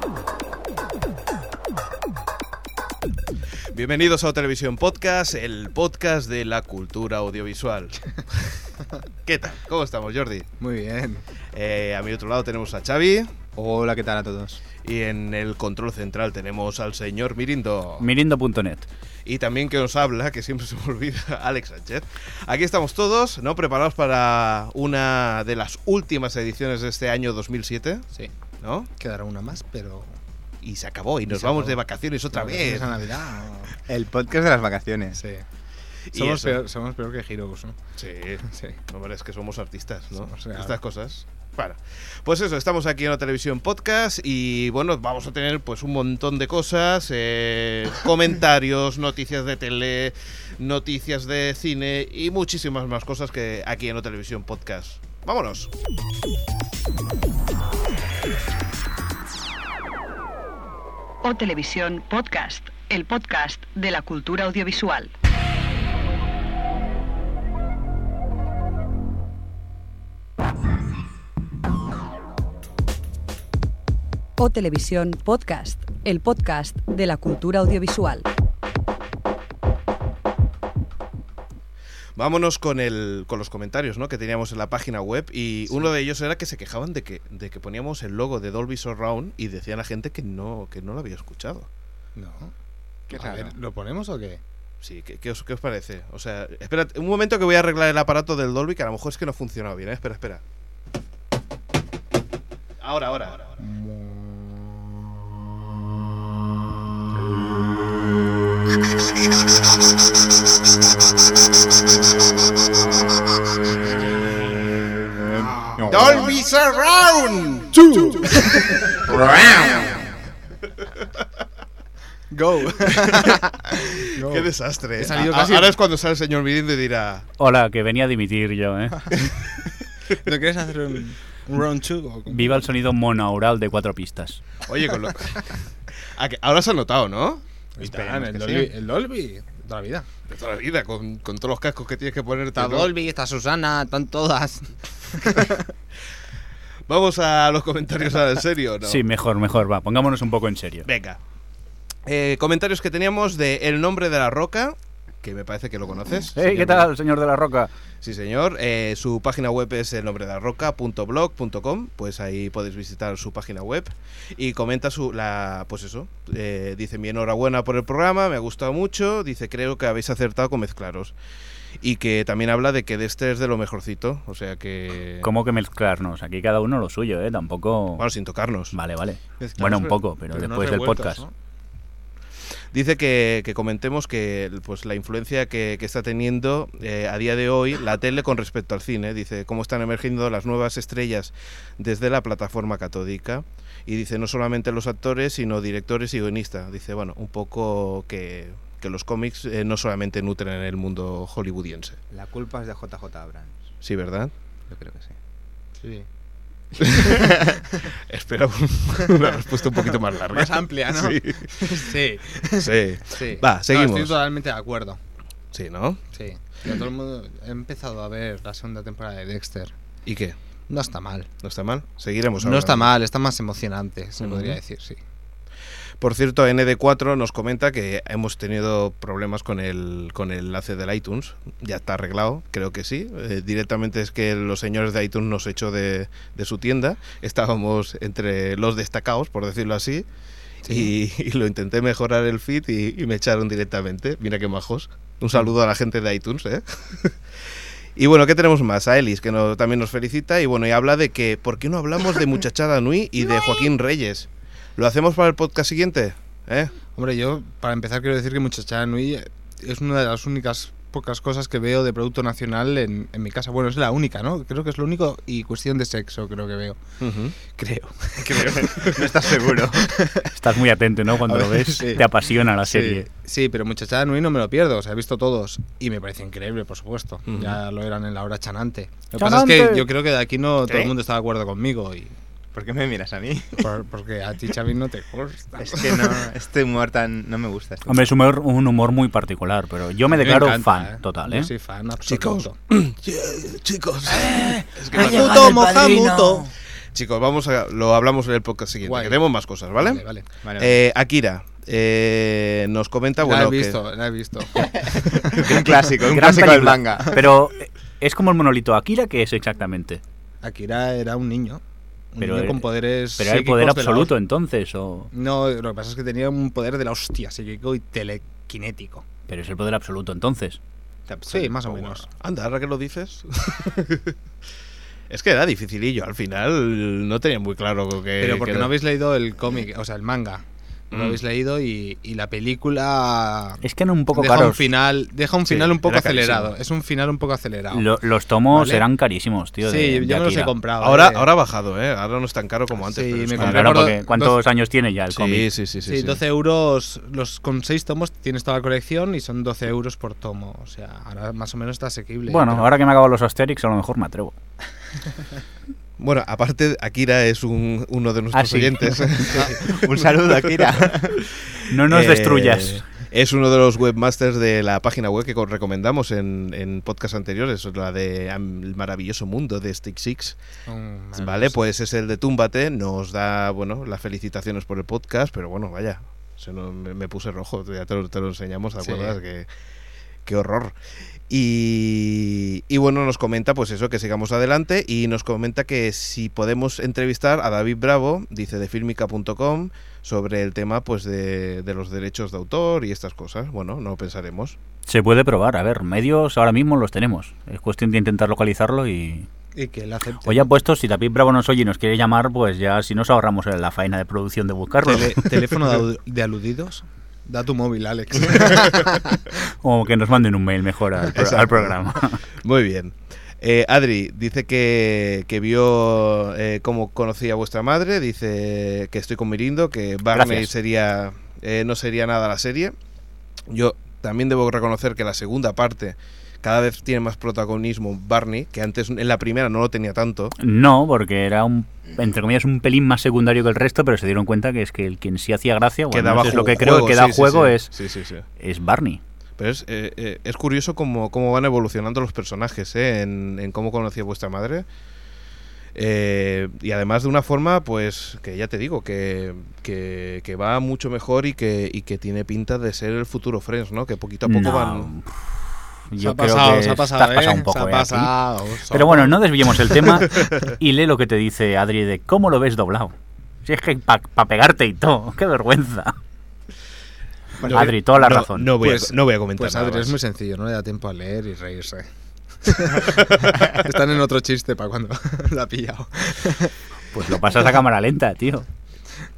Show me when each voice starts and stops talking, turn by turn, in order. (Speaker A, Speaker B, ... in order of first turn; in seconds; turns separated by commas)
Speaker A: 3.7-8.5, Speaker A: 9.2-10.5, Speaker B: 10.6-11.2, Speaker A: 11.5-13.4, Speaker C: 13.6-14.6, Speaker A: 14.8-18.1, Speaker D: 18.0-18.9, Speaker A: 19.2-28.0, Speaker A: 28.6-28.9, Speaker B: 29.0-30.1, Speaker A: 30.6-33.1, Speaker B: 31.3-31.8, Speaker B: 32.3-33.7, Speaker C: 33.9-35.2, Speaker B: 35.1-35.4, Speaker A: 36.1-36.6, Speaker B: 36.1-37.8, Speaker A: 38.0-55.7, Speaker B: 38.4-38.8, Speaker B: 40.2-40.8, Speaker E: 61.2-65.1, Speaker E: 74.4-78.3, Speaker A: 82.2-91.7, Speaker B: 92.2-92.5, Speaker C: 93.1-93.5, Speaker B: 93.1-94.4, Speaker A: 94.8-100.4, Speaker A: 102.8-103.5, Speaker C: 115.2-116.4, Speaker A: 115.8-118.3, Speaker B: 118.0-119.2, Speaker A: 119.1-119.8, Speaker B: 122.3-125.8, Speaker A: 123.1-127.2, Speaker D: 127.4-129.3, Speaker B: 130.1-132.6, Speaker D: 132.3-134.4, Speaker A: 134.7-135.6, Speaker A: 136.1-138.7, Speaker B: 137.8-140.1, Speaker A: 140.3-142.9, Speaker B: 142.6-145.6, Speaker A: 146.9-149.0, Speaker D: 148.8-150.8, Speaker A: 150.8-151.2, Speaker A: 152.1-156.9, Speaker D: 156.3-157.7, Speaker A: 158.0-171.1, Speaker A: 171.8-175.3, Speaker D: 175.2-178.1, Speaker A: 178.0-178.7, Speaker D: 178.7-181.2, Speaker B: 179.4-181.3, Speaker A: 182.7-202.0, Speaker C: 202.1-203.7, Speaker A: 203.8-204.3, Speaker C: 204.7-205.1, Speaker B: 205.8-206.1, Speaker A: 206.8-207.3, Speaker A: 207.9-211.7, Speaker B: 210.3-215.0, Speaker A: 212.6-214.1, Speaker A: 215.5-216.0, Speaker B: 216.1-219.7, Speaker A: 220.0-220.4, Speaker B: 220.7-221.3, Speaker A: 221.4-222.9, Speaker B: 222.4-225.0, Speaker A: 224.2-224.6, Speaker A: 226.0-240.1, Speaker B: 240.6-240.9, Speaker A: 240.7-247.2, Speaker A: 247.9-256.7, Speaker B: 256.9-266.8, Speaker A: 267.0-267.3, Speaker B: 267.4-268.9, Speaker A: 268.2-269.1, Speaker C: 268.4-269.9, Speaker B: 269.5-270.3, Speaker D: 270.3-273.1, Speaker C: 271.2-272.0, Speaker C: 272.7-273.0, Speaker B: 273.1-282.1, Speaker A: 277.3-277.6, Speaker D: 279.2-279.9, Speaker C: 282.5-283.7, Speaker B: 283.6-286.3, Speaker C: 285.6-288.1, Speaker D: 287.9-291.5, Speaker B: 290.1-292.5, Speaker A: 292.1-295.6, Speaker C: 294.1-296.5, Speaker B: 294.9-296.5, Speaker A: 296.9-300.0, Speaker B: 298.8-299.2, Speaker B: 299.8-300.2, Speaker C: 300.4-300.8, Speaker A: 300.6-303.8, Speaker B: 303.2-305.9, Speaker C: 304.6-307.2, Speaker D: 305.9-310.0, Speaker B: 310.4-311.6, Speaker B: 312.1-314.1, Speaker D: 312.2-315.1, Speaker B: 315.1-319.0, Speaker D: 319.3-320.6, Speaker C: 321.1-321.5, Speaker B: 321.3-322.1, Speaker A: 321.6-324.1, Speaker A: 325.1-328.7, Speaker B: 328.2-333.6, Speaker A: 330.9-331.2, Speaker D: 333.6-334.6, Speaker B: 334.1-338.0, Speaker A: 335.4-336.5, Speaker D: 337.7-340.5, Speaker B: 338.5-338.8, Speaker B: 339.6-341.3, Speaker A: 340.8-343.9, Speaker B: 342.8-344.4, Speaker D: 343.4-345.5, Speaker A: 345.1-346.2, Speaker B: 345.8-352.7, Speaker D: 352.3-354.3, Speaker A: 356.0-360.4, Speaker D: 358.3-359.3, Speaker C: 359.4-361.2, Speaker D: 361.7-362.8, Speaker A: 361.9-370.4, Speaker B: 370.7-371.6, Speaker A: 371.1-379.5, Speaker B: 378.8-379.1, Speaker A: 380.2-380.8, Speaker A: 381.3-394.6, Speaker D: 394.9-399.3, Speaker B: 399.5-400.5, Speaker D: 400.2-405.3, Speaker B: 404.8-409.2, Speaker D: 409.6-412.2, Speaker A: 411.1-411.7, Speaker A: 412.4-422.7, Speaker D: 420.1-420.5, Speaker A: 423.5-430.4, Speaker D: 430.4-437.7, Speaker A: 435.9-438.2, Speaker D: 438.4-439.0, Speaker A: 439.4-444.6, Speaker A: 445.7-454.9, Speaker D: 454.2-458.1, Speaker B: 456.0-459.6, Speaker D: 458.7-462.9, Speaker D: 463.4-465.9, Speaker B: 467.4-467.7, Speaker A: 467.4-469.9, Speaker D: 467.5-468.5, Speaker B: 468.6-471.9, Speaker B: 472.4-476.5, Speaker A: 473.0-473.6, Speaker D: 476.9-478.4